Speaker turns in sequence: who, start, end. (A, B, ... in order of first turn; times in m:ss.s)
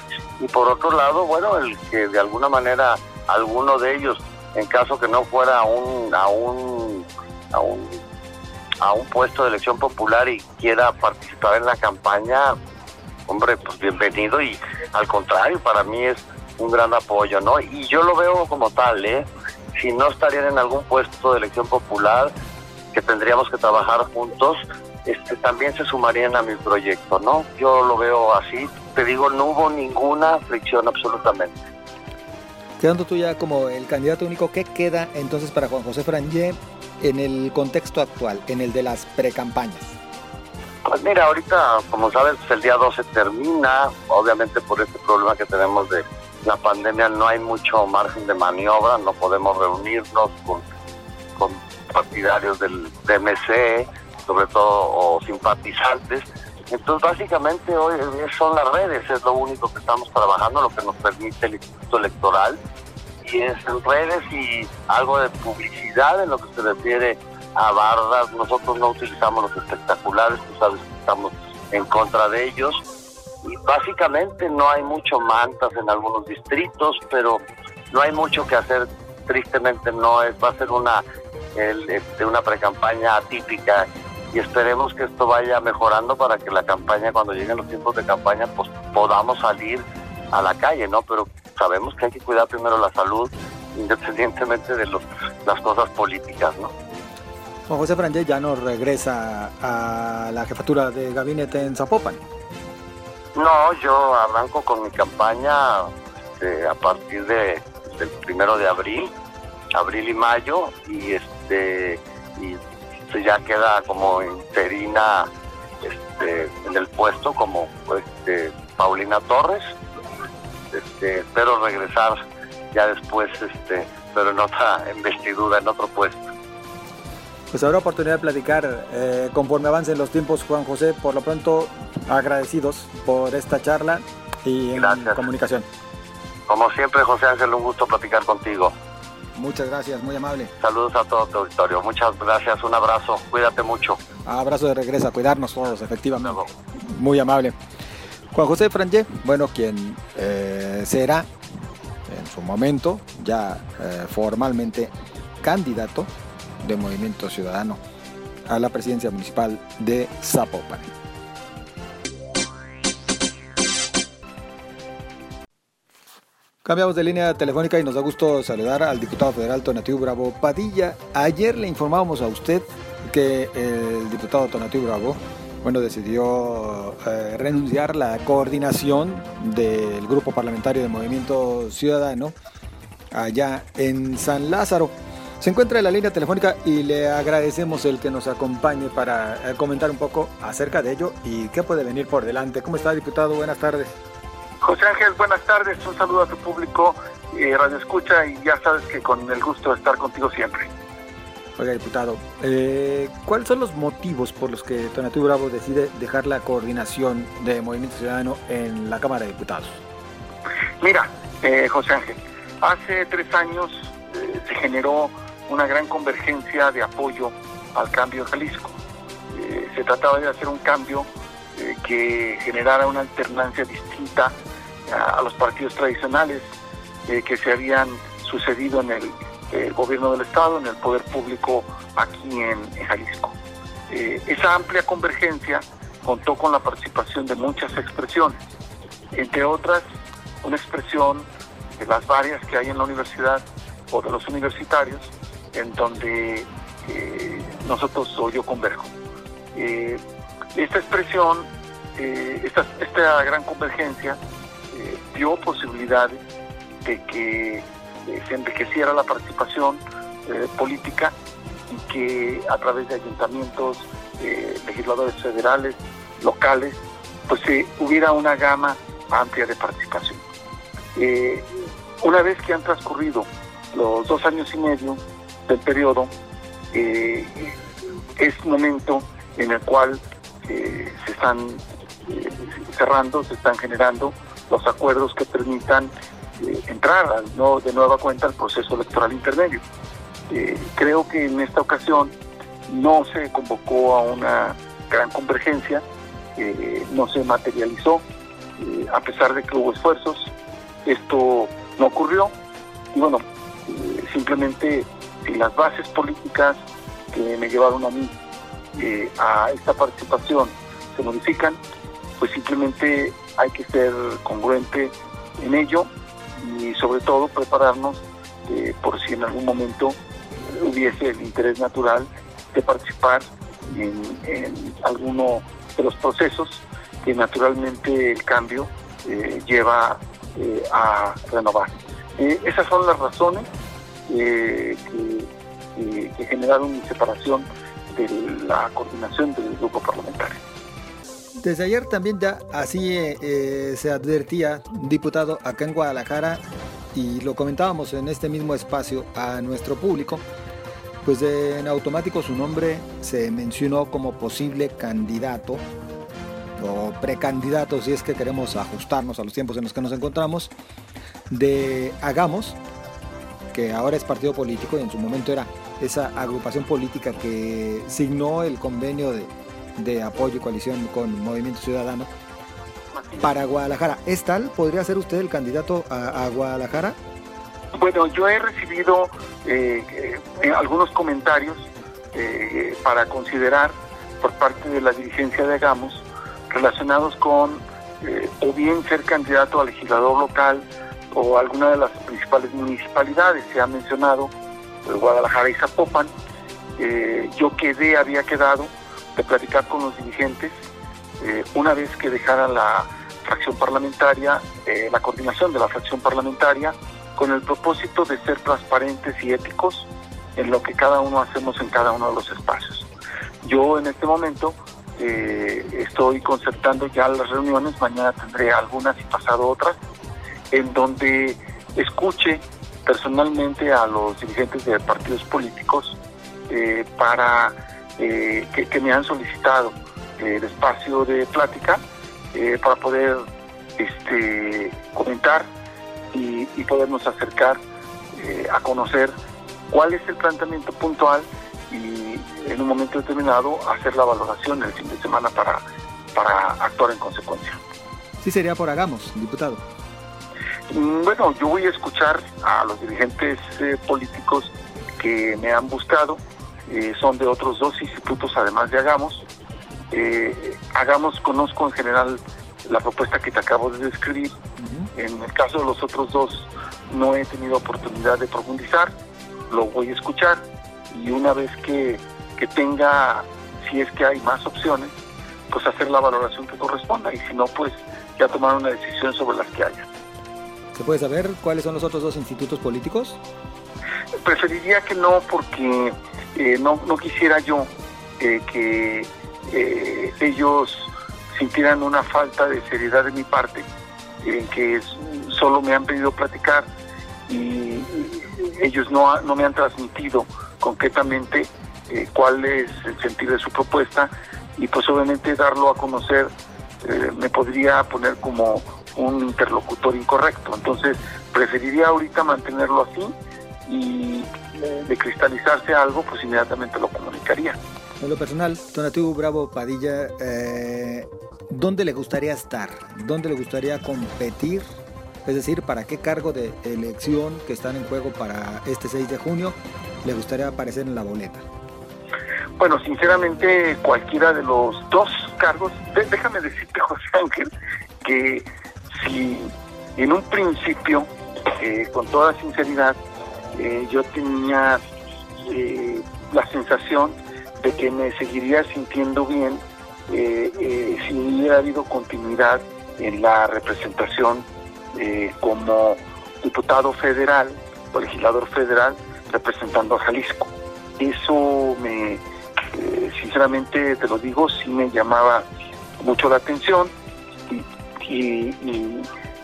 0:00.4-0:08.0 A
0:08.8-0:12.5 A
0:13.3-0:22.3 A
0:22.9-0:31.5 A
0:32.8-0:40.0 B
0:40.8-0:50.6 A
0:51.4-1:02.6 A
1:03.2-1:12.8 A
1:13.4-1:21.0 A
1:21.5-1:36.7 A
1:37.7-1:42.2 B
1:43.3-1:49.1 A
1:49.7-1:55.3 A
1:55.8-1:59.7 A
2:00.7-2:02.2 A
2:02.7-2:06.3 A
2:07.5-2:15.7 B
2:14.7-2:15.2 A
2:16.5-2:18.7 A
2:19.3-2:20.5 B
2:20.6-2:24.0 A
2:24.2-2:27.5 B
2:28.3-2:31.3 B
2:32.1-2:37.8 B
2:38.5-2:40.9 B
2:46.6-3:02.3 B
3:03.1-3:14.0 B
3:14.6-3:20.7 C
3:21.6-3:29.8 B
3:30.8-3:38.8 C
3:39.3-3:44.4 C
3:44.9-3:46.4 C
3:47.1-3:53.4 C
3:53.9-3:58.4 C
3:59.1-3:59.8 C
4:00.4-4:08.9 C
4:09.5-4:10.0 C
4:10.5-4:14.2 C
4:14.7-4:16.2 C
4:16.8-4:21.1 C
4:21.7-4:30.2 C
4:30.9-4:36.1 C
4:36.7-4:37.5 C
4:38.2-4:49.6 C
4:50.3-4:52.1 C
4:52.7-4:55.8 C
4:56.4-4:58.0 C
4:58.6-5:00.3 C
5:00.8-5:02.3 C
5:02.9-5:06.6 C
5:07.1-5:08.1 C
5:08.8-5:11.6 C
5:12.2-5:33.5 C
5:34.1-5:40.4 C
5:41.4-5:46.4 B
5:46.9-5:50.2 B
5:51.0-5:55.6 B
5:56.6-6:00.5 B
6:01.3-6:02.6 B
6:03.5-6:12.1 B
6:12.9-6:13.3 C
6:13.2-6:17.0 B
6:17.7-6:34.3 C
6:34.8-6:36.1 C
6:36.8-6:40.5 C
6:41.2-6:52.9 C
6:53.4-6:59.8 C
7:00.5-7:06.0 C
7:06.5-7:11.8 C
7:12.3-7:13.2 C
7:13.8-7:15.5 C
7:16.1-7:17.6 C
7:18.1-7:19.1 C
7:19.7-7:25.6 C
7:26.1-7:27.6 C
7:28.2-7:29.6 B
7:30.7-7:39.2 C
7:39.9-7:44.3 C
7:44.6-7:44.9 B
7:44.9-7:48.9 C
7:49.5-7:54.9 C
7:55.5-7:59.9 C
8:00.7-8:03.2 B
8:04.2-8:13.7 C
8:14.2-8:16.7 C
8:17.3-8:33.1 C
8:33.6-8:37.6 C
8:38.0-8:44.6 B
8:45.2-8:51.4 B
8:52.6-8:57.5 C
8:58.0-9:03.0 C
9:03.5-9:04.8 C
9:05.4-9:25.4 C
9:26.0-9:26.9 C
9:27.5-9:29.1 C